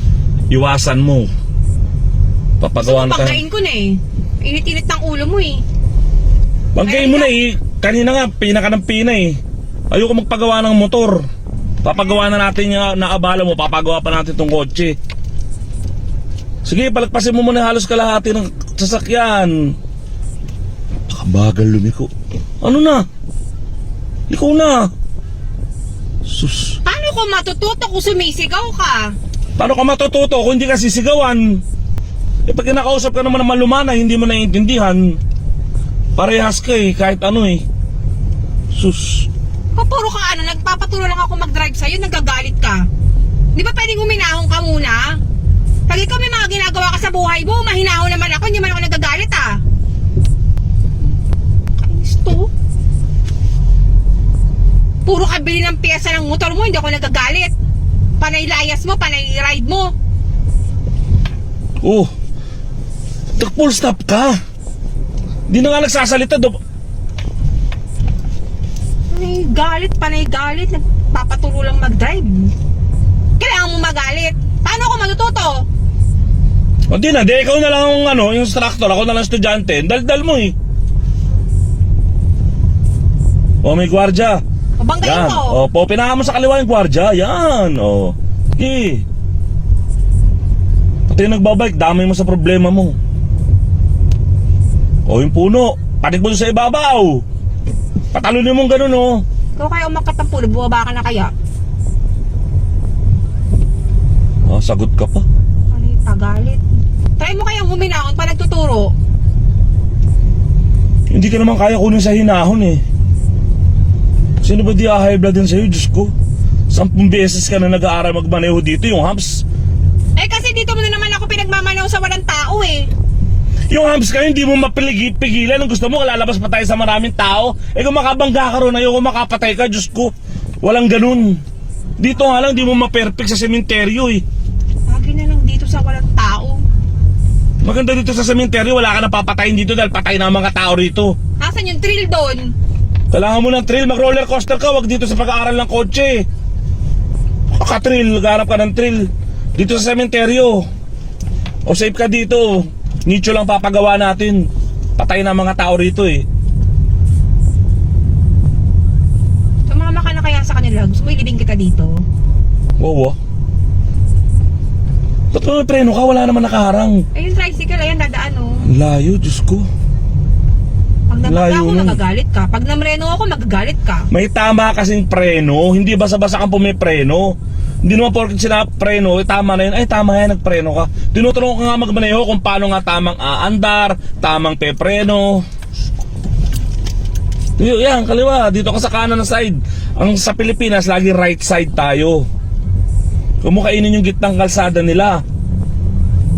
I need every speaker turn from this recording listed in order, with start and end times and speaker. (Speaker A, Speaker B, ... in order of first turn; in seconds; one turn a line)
Speaker A: 0.5-1.3
Speaker A: 2.6-3.4
Speaker B: 2.8-5.6
Speaker A: 6.7-9.4
Speaker B: 6.8-7.4
Speaker A: 9.9-11.2
Speaker A: 11.8-15.0
Speaker A: 16.6-19.7
Speaker A: 21.1-22.1
Speaker A: 22.6-23.1
Speaker A: 24.3-24.9
Speaker A: 26.2-26.8
Speaker B: 26.8-29.2
Speaker A: 29.6-31.6
Speaker A: 32.5-35.2
Speaker A: 36.2-37.6
Speaker A: 38.7-39.3
Speaker B: 39.8-42.9
Speaker B: 43.5-45.2
Speaker B: 45.9-49.6
Speaker B: 51.8-52.5
Speaker B: 55.0-57.5
Speaker B: 58.2-59.9
Speaker A: 61.8-62.1
Speaker A: 63.4-64.4
Speaker A: 65.5-66.6
Speaker B: 69.1-72.5
Speaker B: 73.4-75.6
Speaker A: 76.9-80.5
Speaker A: 83.6-84.4
Speaker B: 84.8-85.6
Speaker A: 85.0-89.0
Speaker A: 91.1-93.0
Speaker A: 95.1-97.2
Speaker A: 98.1-99.2
Speaker B: 99.6-101.3
Speaker A: 104.5-105.2
Speaker B: 105.7-106.6
Speaker B: 107.2-108.9
Speaker A: 111.1-112.8
Speaker A: 114.4-116.1
Speaker A: 116.7-119.4
Speaker B: 120.2-122.9
Speaker A: 123.7-131.4
Speaker A: 132.0-134.2
Speaker B: 134.9-136.6
Speaker A: 137.6-141.2
Speaker B: 141.4-142.5
Speaker A: 143.1-146.2
Speaker A: 147.5-150.7
Speaker A: 151.7-154.5
Speaker A: 155.0-156.2
Speaker B: 159.7-162.0
Speaker A: 162.8-163.2
Speaker A: 165.3-167.0
Speaker B: 167.1-168.6
Speaker A: 168.7-169.7
Speaker B: 171.1-174.1
Speaker A: 171.2-172.0
Speaker A: 174.1-185.4
Speaker A: 187.6-192.2
Speaker A: 193.4-195.2